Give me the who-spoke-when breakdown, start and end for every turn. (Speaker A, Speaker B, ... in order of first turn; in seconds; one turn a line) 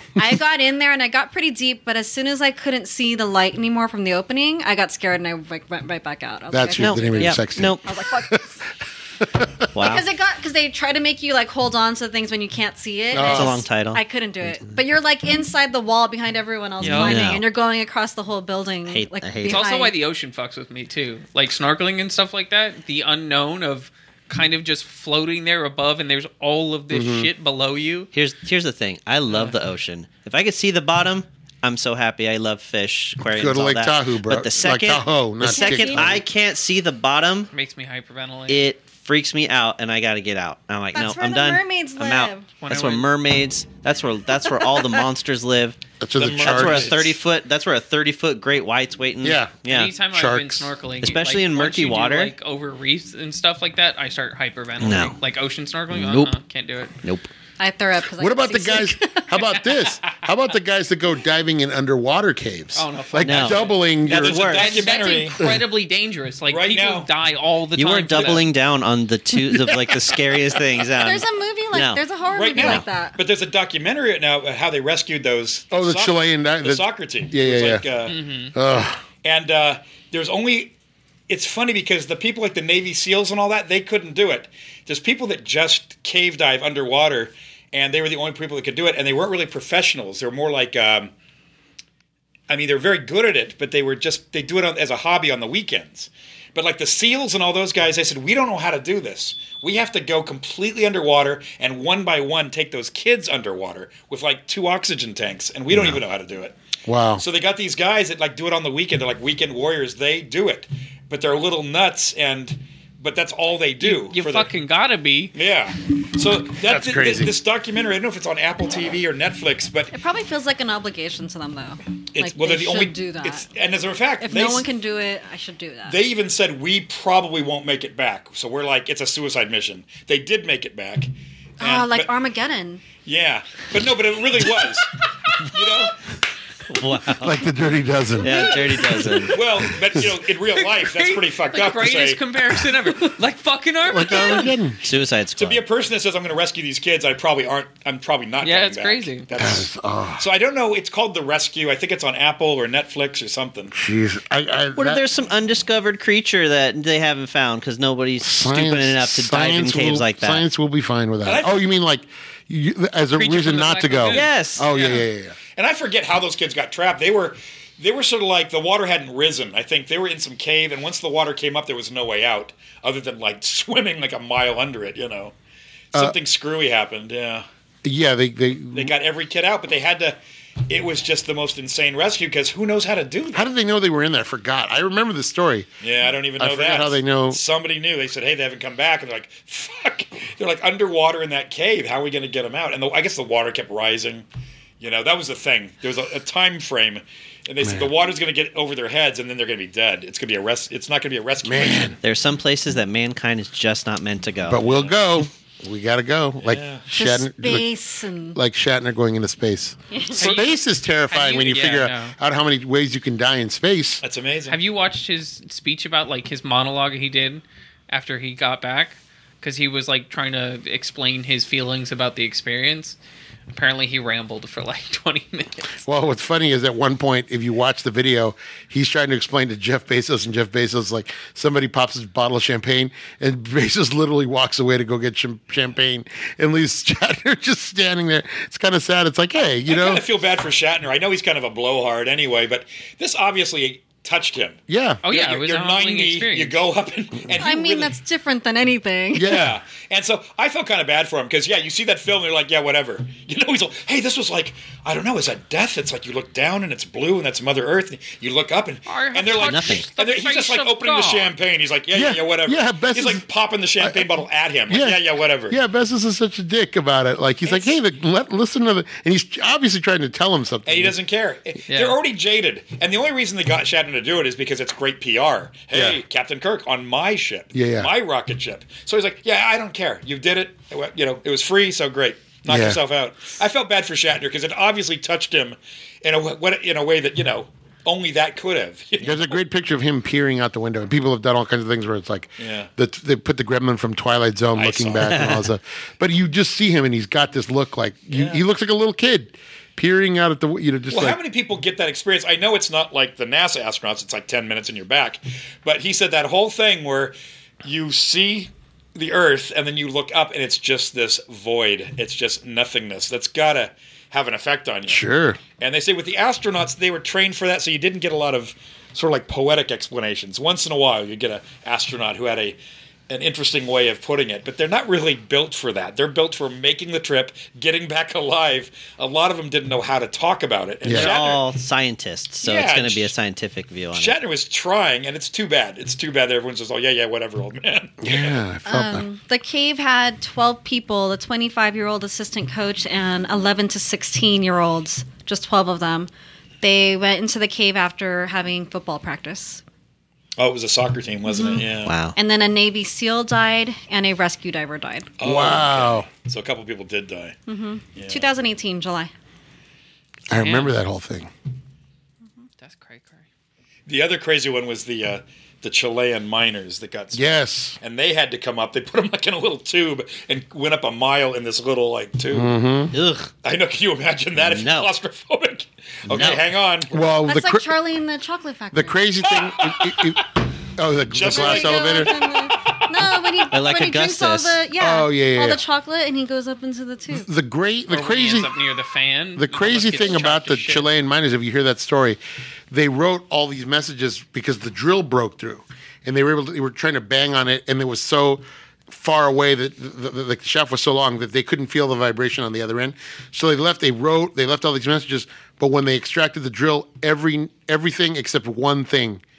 Speaker A: 0.2-8.6
Speaker B: 6.5-8.4
Speaker C: 6.8-7.9
Speaker B: 9.2-9.6
Speaker C: 9.7-10.1
Speaker A: 9.8-19.9
Speaker B: 13.1-13.6
Speaker C: 13.2-14.0
Speaker D: 16.8-17.2
Speaker C: 16.8-17.4
Speaker C: 18.9-19.6
Speaker D: 19.4-28.1
Speaker B: 26.9-27.3
Speaker C: 28.1-37.5
Speaker D: 29.3-29.6
Speaker B: 33.2-36.2
Speaker A: 35.4-36.1
Speaker D: 37.5-38.7
Speaker C: 38.5-49.9
Speaker A: 40.9-42.5
Speaker D: 42.6-43.1
Speaker A: 44.5-45.0
Speaker B: 46.0-47.1
Speaker E: 46.2-47.2
Speaker B: 49.2-50.7
Speaker D: 49.7-57.0
Speaker C: 51.0-52.3
Speaker C: 54.8-55.2
Speaker C: 55.9-56.3
Speaker C: 57.0-57.3
Speaker A: 57.6-59.3
Speaker B: 58.2-64.6
Speaker D: 62.8-68.5
Speaker C: 63.2-64.9
Speaker E: 64.0-65.4
Speaker E: 66.5-67.1
Speaker C: 67.8-72.0
Speaker A: 71.0-73.2
Speaker E: 72.3-78.2
Speaker C: 72.5-72.8
Speaker B: 75.7-77.8
Speaker D: 78.1-78.5
Speaker B: 78.5-79.0
Speaker E: 79.2-80.7
Speaker E: 81.3-91.1
Speaker E: 92.5-106.6
Speaker B: 106.9-107.2
Speaker E: 107.2-114.5
Speaker D: 113.8-115.3
Speaker E: 115.3-119.9
Speaker B: 116.6-117.3
Speaker A: 119.9-123.5
Speaker E: 122.1-124.7
Speaker A: 124.2-126.0
Speaker E: 125.9-132.1
Speaker A: 131.6-132.8
Speaker E: 133.0-136.0
Speaker C: 136.7-137.5
Speaker B: 137.1-140.1
Speaker C: 138.2-139.5
Speaker D: 138.2-139.3
Speaker E: 139.3-142.2
Speaker D: 140.5-144.6
Speaker B: 143.8-144.8
Speaker C: 144.8-145.6
Speaker E: 145.4-153.7
Speaker D: 148.4-149.3
Speaker B: 149.4-150.2
Speaker B: 153.7-155.0
Speaker C: 154.8-160.4
Speaker B: 158.2-165.4
Speaker E: 161.2-161.6
Speaker D: 163.1-164.3
Speaker C: 164.1-164.7
Speaker E: 164.7-165.0
Speaker E: 165.6-175.3
Speaker E: 175.9-177.4
Speaker B: 177.8-178.9
Speaker E: 178.7-183.5
Speaker B: 183.3-185.7
Speaker E: 185.8-194.2
Speaker B: 186.4-187.4
Speaker E: 194.8-202.0
Speaker B: 197.6-197.9
Speaker B: 201.4-202.0
Speaker C: 202.0-204.7
Speaker B: 204.5-207.7
Speaker E: 206.4-206.9
Speaker A: 207.0-208.4
Speaker B: 208.3-214.0
Speaker A: 209.9-210.3
Speaker D: 210.2-210.5
Speaker D: 211.1-212.2
Speaker E: 214.0-214.6
Speaker D: 214.5-223.0
Speaker D: 223.5-225.8
Speaker B: 225.8-240.1
Speaker E: 239.7-247.9
Speaker B: 244.7-245.0
Speaker D: 245.1-246.6
Speaker A: 247.4-249.4
Speaker B: 249.2-249.6
Speaker E: 249.2-265.6
Speaker D: 258.9-261.3
Speaker C: 259.4-259.9
Speaker B: 261.9-263.2
Speaker B: 263.8-264.1
Speaker B: 264.7-271.0
Speaker E: 267.4-267.8
Speaker E: 270.7-289.4
Speaker D: 271.7-272.0
Speaker B: 275.7-276.0
Speaker B: 277.5-277.9
Speaker B: 282.5-282.8
Speaker B: 289.0-301.2
Speaker E: 292.4-292.7
Speaker E: 294.6-295.3
Speaker C: 295.0-295.4
Speaker E: 298.1-298.4
Speaker E: 300.9-315.0
Speaker B: 314.9-315.4
Speaker E: 315.6-322.6
Speaker E: 323.1-331.4
Speaker B: 330.8-331.2
Speaker C: 330.9-334.2
Speaker E: 332.4-333.1
Speaker E: 333.9-338.4
Speaker B: 338.0-339.1
Speaker A: 338.6-346.1
Speaker A: 346.6-349.6
Speaker E: 350.4-352.0
Speaker A: 351.3-355.1
Speaker C: 351.8-352.2
Speaker E: 355.2-357.4
Speaker B: 355.2-356.1
Speaker A: 357.5-359.1
Speaker E: 357.9-358.3
Speaker B: 360.3-361.3
Speaker D: 360.4-360.8
Speaker D: 362.6-363.3
Speaker E: 363.9-367.2
Speaker B: 367.1-367.8
Speaker E: 367.8-372.5
Speaker B: 372.3-372.9
Speaker C: 372.9-373.3
Speaker E: 373.4-377.1
Speaker C: 374.4-374.9
Speaker C: 376.1-376.4
Speaker B: 376.9-377.7
Speaker A: 377.3-379.0
Speaker B: 378.7-382.2
Speaker E: 379.3-380.2
Speaker E: 381.1-382.1
Speaker A: 381.2-387.3
Speaker C: 383.5-384.6
Speaker B: 384.8-385.6
Speaker B: 387.1-388.5
Speaker D: 387.9-390.9
Speaker B: 389.4-392.2
Speaker B: 392.7-409.2